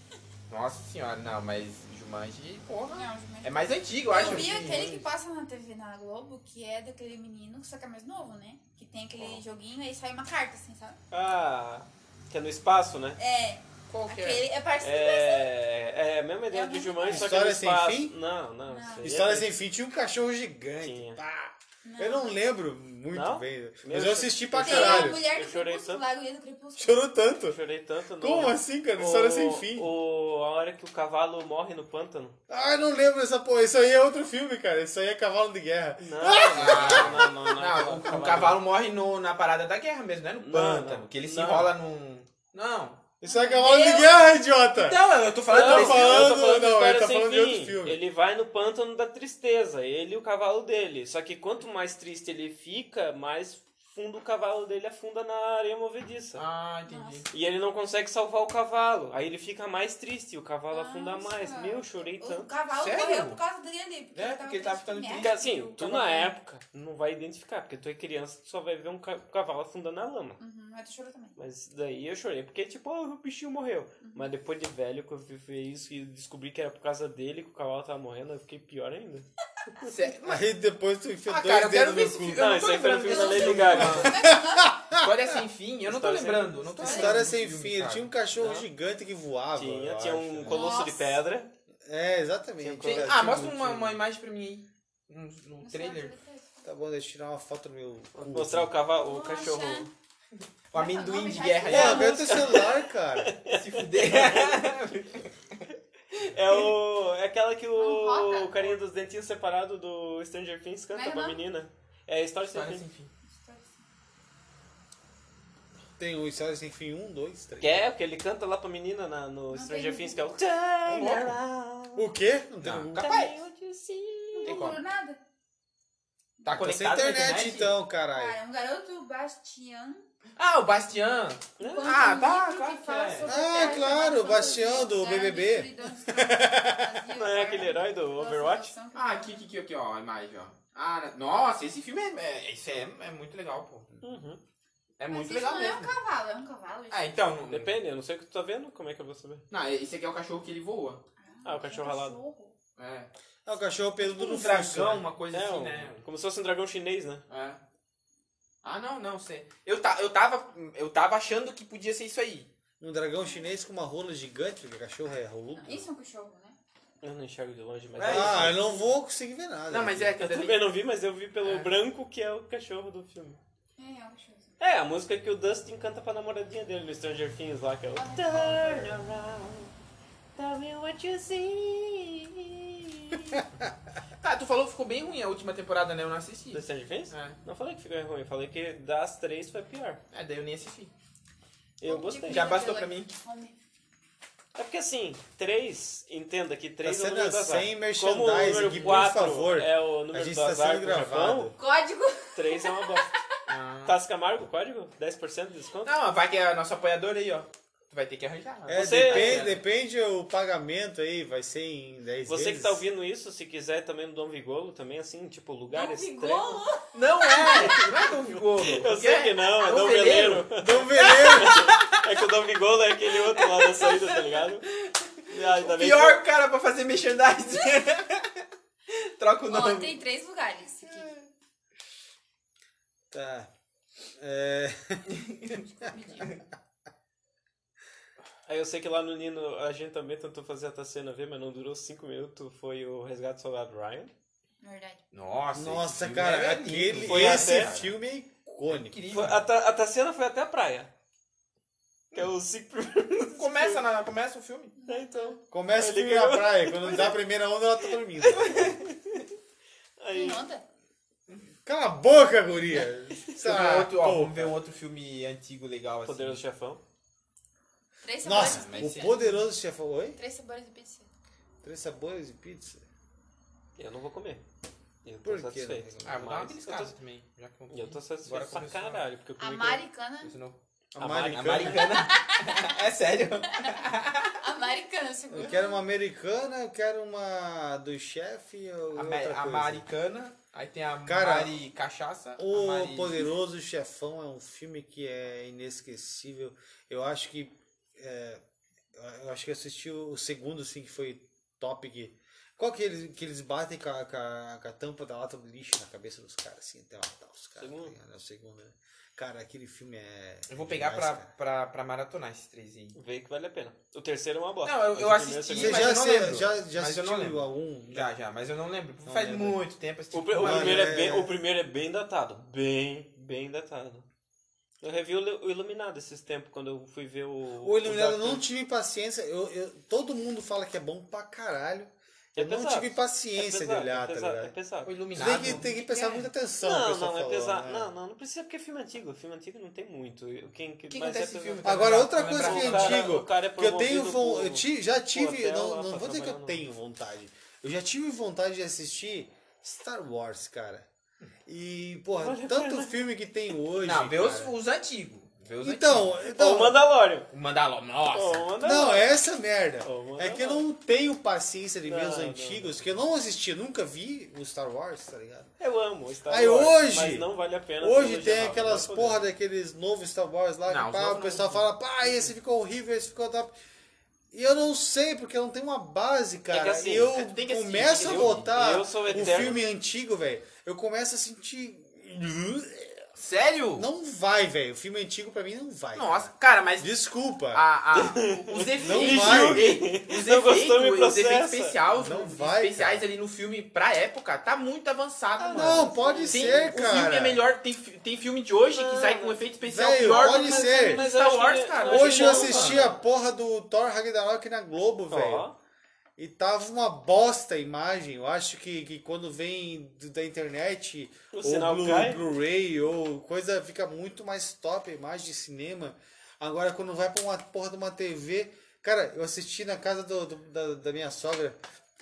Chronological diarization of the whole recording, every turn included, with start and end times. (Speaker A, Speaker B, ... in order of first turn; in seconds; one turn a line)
Speaker A: 0.5-4.9
Speaker B: 2.9-11.0
Speaker C: 4.1-5.0
Speaker D: 11.1-13.2
Speaker B: 13.2-15.5
Speaker A: 13.9-14.5
Speaker D: 14.8-19.6
Speaker B: 16.5-17.3
Speaker C: 17.1-18.1
Speaker B: 18.7-19.1
Speaker C: 19.0-25.2
Speaker D: 20.8-21.2
Speaker B: 21.8-22.3
Speaker D: 23.1-26.1
Speaker B: 24.6-27.0
Speaker C: 26.8-27.6
Speaker D: 27.4-32.4
Speaker C: 28.2-29.9
Speaker C: 32.5-37.2
Speaker D: 36.0-38.6
Speaker A: 36.3-43.0
Speaker D: 40.4-41.7
Speaker C: 43.2-48.0
Speaker B: 43.3-44.1
Speaker A: 44.7-46.4
Speaker D: 45.5-56.4
Speaker A: 56.4-57.3
Speaker B: 56.9-57.3
Speaker D: 57.3-62.5
Speaker B: 60.7-66.3
Speaker A: 62.7-63.4
Speaker A: 64.2-65.4
Speaker D: 65.2-70.4
Speaker B: 70.4-71.4
Speaker D: 71.4-79.3
Speaker B: 74.0-74.3
Speaker A: 79.8-80.4
Speaker C: 80.2-82.7
Speaker A: 81.3-84.3
Speaker D: 82.4-84.1
Speaker B: 83.1-84.8
Speaker C: 83.6-85.4
Speaker A: 85.0-88.1
Speaker D: 85.8-86.7
Speaker C: 86.8-90.7
Speaker B: 86.8-87.2
Speaker D: 88.4-88.7
Speaker D: 89.6-91.5
Speaker B: 90.5-91.2
Speaker C: 91.9-94.0
Speaker D: 92.6-93.2
Speaker A: 92.8-96.1
Speaker B: 95.6-96.7
Speaker C: 96.6-98.7
Speaker D: 98.2-99.9
Speaker B: 99.0-99.9
Speaker A: 100.7-102.6
Speaker B: 100.8-102.4
Speaker C: 101.7-103.3
Speaker D: 101.7-104.6
Speaker A: 103.5-105.6
Speaker D: 106.3-112.8
Speaker B: 107.8-108.7
Speaker B: 110.9-111.4
Speaker A: 112.4-113.1
Speaker B: 113.2-113.8
Speaker C: 116.0-117.8
Speaker D: 117.6-122.0
Speaker B: 119.5-120.3
Speaker A: 120.8-121.4
Speaker C: 121.9-123.0
Speaker A: 122.6-123.4
Speaker D: 123.0-124.6
Speaker B: 124.3-125.2
Speaker A: 124.4-124.8
Speaker A: 126.4-127.7
Speaker C: 126.5-128.4
Speaker B: 128.1-130.1
Speaker A: 130.4-133.8
Speaker D: 131.6-132.0
Speaker B: 131.6-139.4
Speaker C: 133.2-137.0
Speaker D: 137.2-138.7
Speaker A: 138.9-143.9
Speaker D: 144.0-144.4
Speaker A: 145.0-145.9
Speaker B: 145.1-147.2
Speaker A: 146.9-147.7
Speaker D: 147.5-149.4
Speaker A: 149.5-151.0
Speaker B: 151.2-152.6
Speaker D: 151.4-152.2
Speaker A: 152.8-153.1
Speaker C: 153.5-155.1
Speaker A: 154.1-156.0
Speaker D: 155.3-157.2
Speaker A: 157.3-157.6
Speaker A: 158.6-162.5
Speaker C: 162.8-165.9
Speaker B: 165.5-166.6
Speaker D: 167.0-168.6
Speaker A: 168.0-168.9
Speaker C: 168.0-170.2
Speaker A: 169.7-170.7
Speaker D: 170.3-173.4
Speaker A: 171.4-171.7
Speaker B: 173.8-174.5
Speaker D: 174.6-179.7
Speaker B: 177.9-178.9
Speaker D: 180.4-183.4
Speaker A: 184.2-187.4
Speaker D: 186.5-190.0
Speaker A: 190.1-190.9
Speaker D: 191.8-192.6
Speaker B: 191.8-193.6
Speaker A: 192.3-193.2
Speaker D: 194.6-201.5
Speaker C: 196.8-201.6
Speaker A: 198.4-199.1
Speaker B: 201.6-203.2
Speaker D: 202.3-203.1
Speaker A: 203.5-204.0
Speaker D: 203.8-205.9
Speaker A: 205.8-209.6
Speaker D: 208.7-209.6
Speaker C: 208.7-212.8
Speaker D: 212.3-216.6
Speaker B: 215.7-218.0
Speaker A: 216.9-222.0
Speaker D: 217.4-217.9
Speaker D: 218.6-224.7
Speaker C: 220.6-221.7
Speaker A: 223.1-230.0
Speaker D: 225.3-226.2
Speaker B: 229.5-231.2
Speaker A: 230.8-231.3
Speaker C: 233.1-233.5
Speaker C: 234.2-235.1
Speaker A: 235.1-236.4
Speaker B: 235.8-236.3
Speaker D: 238.5-244.1
Speaker B: 244.6-245.0
Speaker A: 245.1-247.9
Speaker C: 245.5-249.0
Speaker D: 247.0-247.8
Speaker A: 248.7-249.4
Speaker D: 249.1-250.9
Speaker D: 252.1-253.8
Speaker A: 253.1-254.7
Speaker B: 254.8-255.4
Speaker D: 254.9-257.2
Speaker C: 255.5-258.8
Speaker D: 258.2-259.3
Speaker D: 260.0-260.4
Speaker B: 260.1-260.6
Speaker C: 261.6-264.6
Speaker A: 263.4-266.4
Speaker D: 266.1-266.8
Speaker B: 268.0-269.4
Speaker C: 268.2-270.2
Speaker A: 268.3-269.3
Speaker B: 270.1-271.1
Speaker C: 271.6-272.8
Speaker D: 273.8-274.4
Speaker D: 275.0-277.0
Speaker C: 275.2-276.3
Speaker A: 276.1-279.0
Speaker D: 277.7-279.9
Speaker B: 279.4-280.3
Speaker A: 280.2-280.6
Speaker C: 280.9-282.0
Speaker D: 281.0-281.9
Speaker A: 281.2-284.4
Speaker B: 281.9-282.8
Speaker B: 283.6-285.8
Speaker C: 285.3-289.8
Speaker A: 288.9-293.3
Speaker C: 291.0-291.6
Speaker C: 292.4-298.4
Speaker C: 298.9-311.3
Speaker D: 307.6-307.9
Speaker A: 310.5-313.0
Speaker D: 312.9-316.0
Speaker A: 314.6-321.0
Speaker C: 315.5-318.1
Speaker C: 319.1-319.6
Speaker D: 320.1-324.1
Speaker C: 320.4-321.4
Speaker D: 324.8-328.4
Speaker C: 327.6-334.5
Speaker D: 332.4-335.7
Speaker A: 334.9-336.3
Speaker C: 335.1-337.9
Speaker D: 336.6-346.6
Speaker A: 340.9-343.1
Speaker C: 341.6-350.9
Speaker C: 351.5-354.6
Speaker D: 352.2-353.0
Speaker A: 353.8-356.2
Speaker C: 355.6-356.8
Speaker D: 356.2-357.3
Speaker A: 357.3-358.5
Speaker D: 358.1-359.1
Speaker C: 358.6-365.5
Speaker D: 359.8-360.6
Speaker D: 361.9-362.8
Speaker D: 365.6-369.2
Speaker C: 366.3-367.3
Speaker C: 367.8-373.6
Speaker A: 370.7-372.3
Speaker C: 374.3-383.1
Speaker D: 376.5-377.2
Speaker A: 377.1-378.6
Speaker D: 378.0-379.6
Speaker A: 383.2-383.9
Speaker C: 383.8-387.7
Speaker A: 385.9-386.9
Speaker A: 387.5-402.9
Speaker D: 387.9-391.8
Speaker C: 388.8-389.7
Speaker C: 391.9-393.0
Speaker D: 395.4-396.7
Speaker C: 395.5-397.4
Speaker D: 398.6-399.4
Speaker C: 399.6-401.1
Speaker D: 400.0-403.0
Speaker C: 401.9-405.5
Speaker D: 405.1-405.6
Speaker C: 406.2-421.6
Speaker D: 411.3-412.2